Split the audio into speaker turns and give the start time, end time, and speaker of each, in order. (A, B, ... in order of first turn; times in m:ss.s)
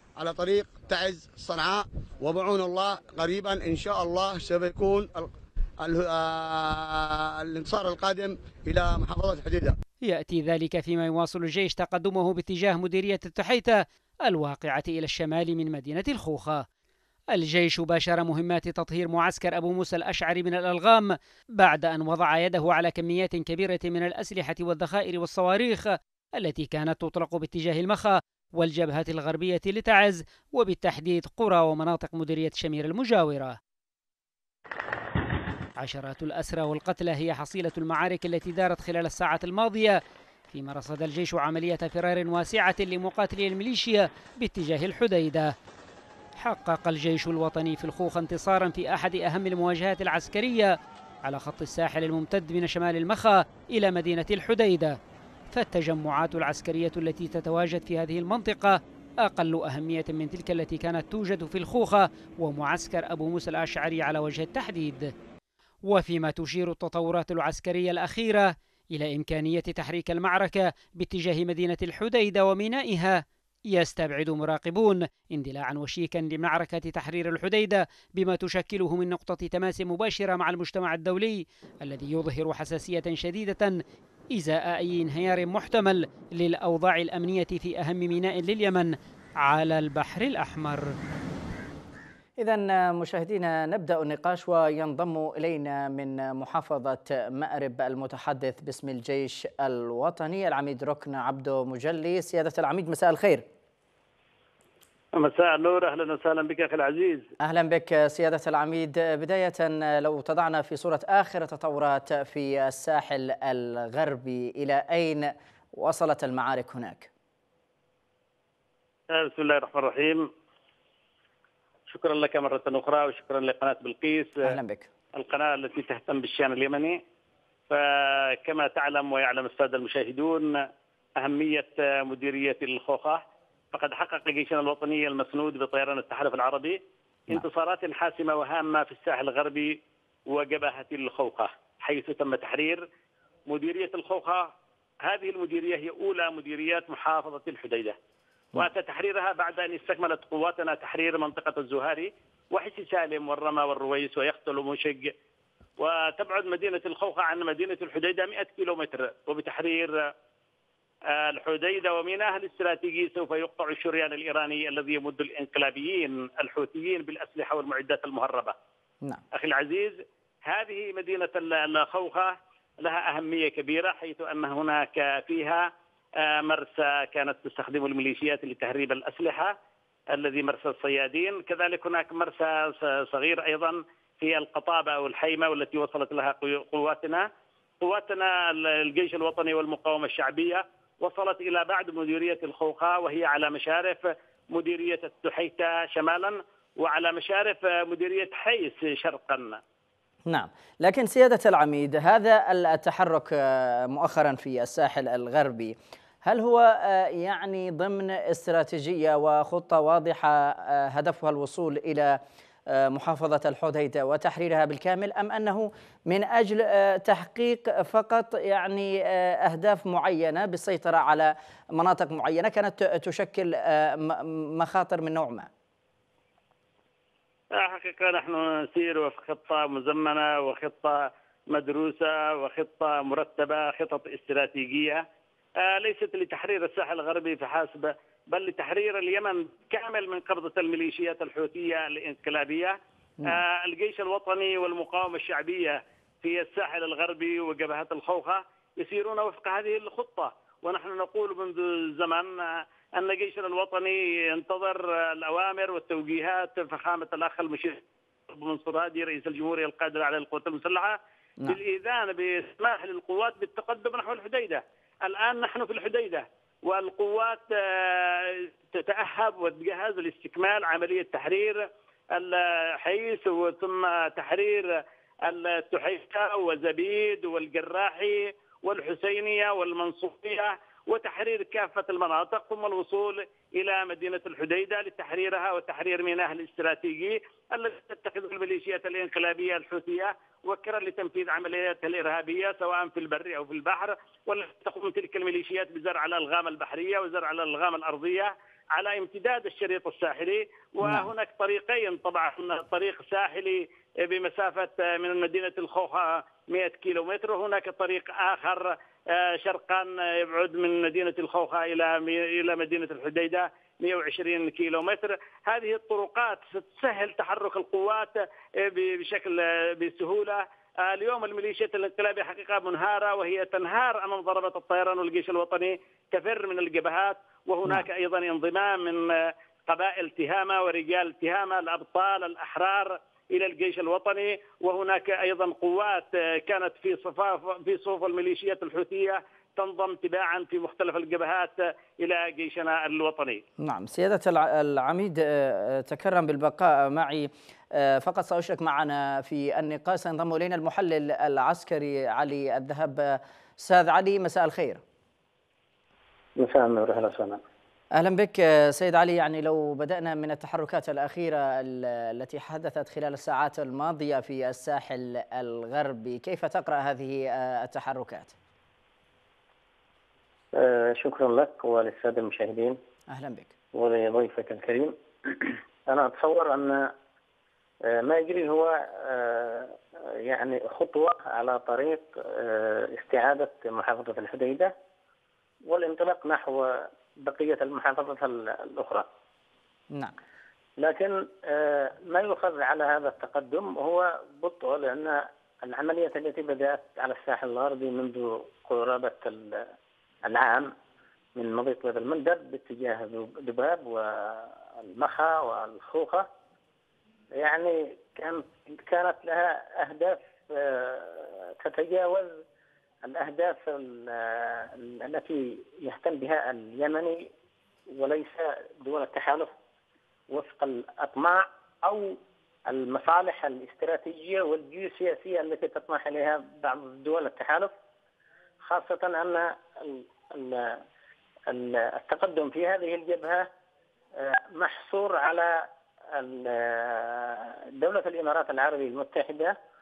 0:00.2-0:09.8 A
0:10.0-0:16.6 B
0:17.3-0:33.6 B
0:35.8-0:40.0 B
0:40.5-0:45.5 B
0:46.4-0:55.0 B
0:55.5-1:05.1 B
1:05.9-1:23.8 B
1:24.3-1:30.9 B
1:32.4-1:43.4 C
1:45.2-1:47.3 D
1:47.4-1:57.1 C
1:59.1-2:00.3 D
2:01.9-2:04.5 D
2:04.4-2:04.9 C
2:05.2-2:07.0 D
2:07.7-2:10.6 D
2:11.2-2:19.8 D
2:20.3-2:22.8 D
2:23.5-2:24.5 D
2:25.0-2:28.0 D
2:28.5-2:35.1 D
2:35.8-2:40.1 D
2:41.1-2:48.5 D
2:49.3-2:55.7 D
2:56.2-2:59.5 D
3:00.1-3:07.2 D
3:07.8-3:19.6 D
3:20.3-3:25.7 C
3:26.2-3:32.2 C
3:32.7-3:45.5 C
3:47.5-3:55.0 D
3:55.6-5:43.4 D
5:00.8-5:01.1 C
5:43.6-5:54.8 C
5:56.4-5:57.4 E
5:57.9-6:08.4 C
6:10.5-6:12.8 E
6:13.1-6:13.5 C
6:13.7-6:16.9 E
6:17.9-6:24.7 E
6:25.7-6:29.1 E
6:30.8-6:39.7 E
6:40.2-6:40.7 E
6:41.4-6:46.3 E
6:47.4-6:52.4 E
6:53.0-6:57.3 E
6:57.9-6:59.5 E
7:00.3-7:07.7 E
7:08.6-7:10.8 E
7:11.5-7:13.5 E
7:14.2-7:19.5 E